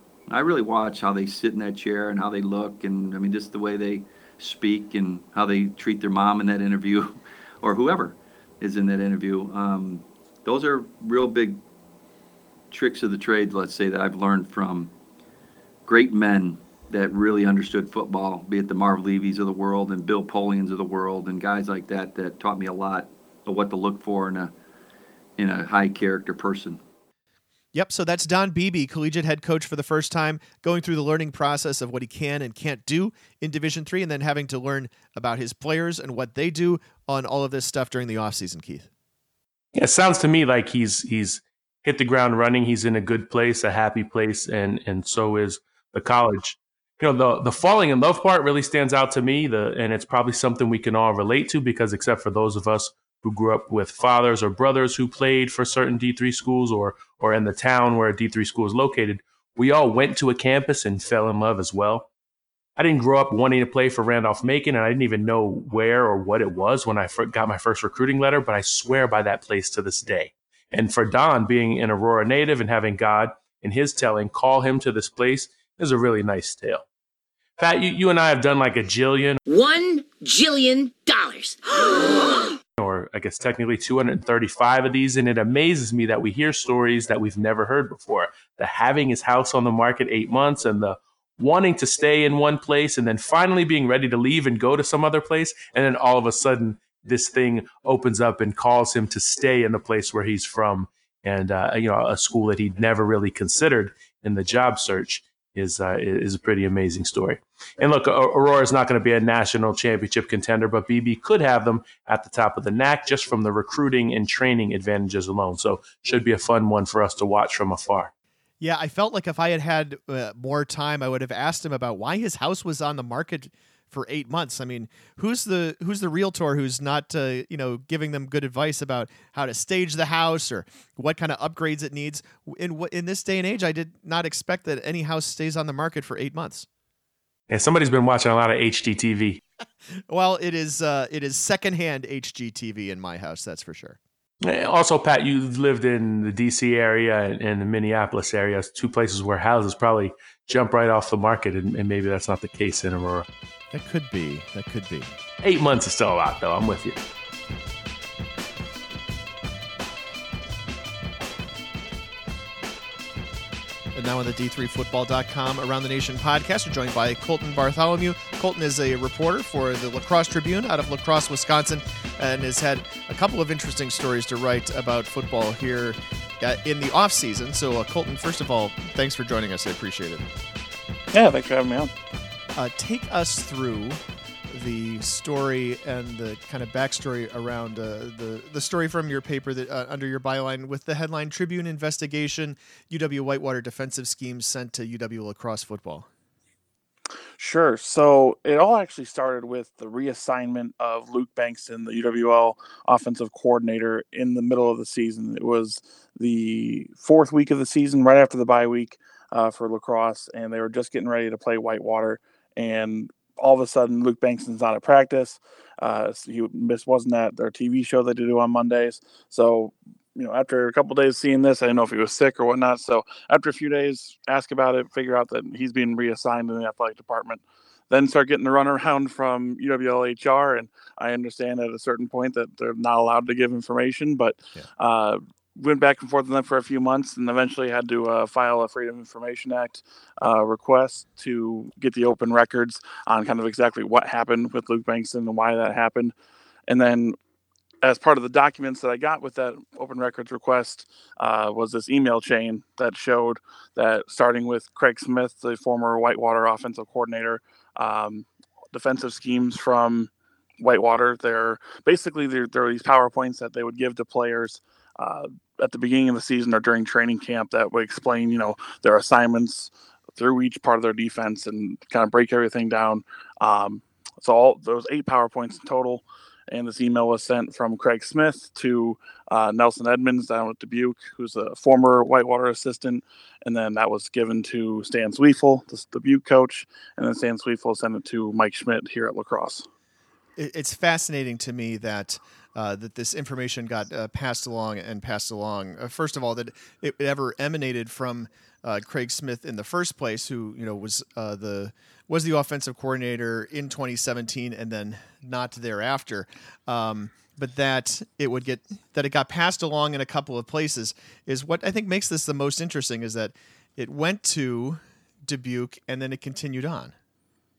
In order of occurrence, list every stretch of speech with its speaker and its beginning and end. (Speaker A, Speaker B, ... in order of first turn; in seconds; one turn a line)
Speaker A: 0.3-11.6
Speaker A: 12.7-14.9
Speaker A: 15.8-24.5
Speaker A: 25.4-26.8
Speaker B: 27.7-38.9
Speaker C: 39.7-62.1
Speaker C: 62.8-76.8
Speaker C: 77.6-79.4
Speaker D: 79.5-82.5
Speaker C: 82.8-118.1
Speaker B: 118.6-136.7
Speaker C: 137.5-139.4
Speaker B: 140.1-144.0
Speaker C: 144.4-153.3
Speaker B: 153.7-155.1
Speaker C: 155.4-157.0
Speaker B: 163.9-180.3
Speaker E: 181.1-181.9
Speaker B: 182.6-196.1
Speaker E: 197.4-246.1
Speaker E: 246.7-247.2
Speaker E: 247.8-289.7
Speaker B: 290.4-316.9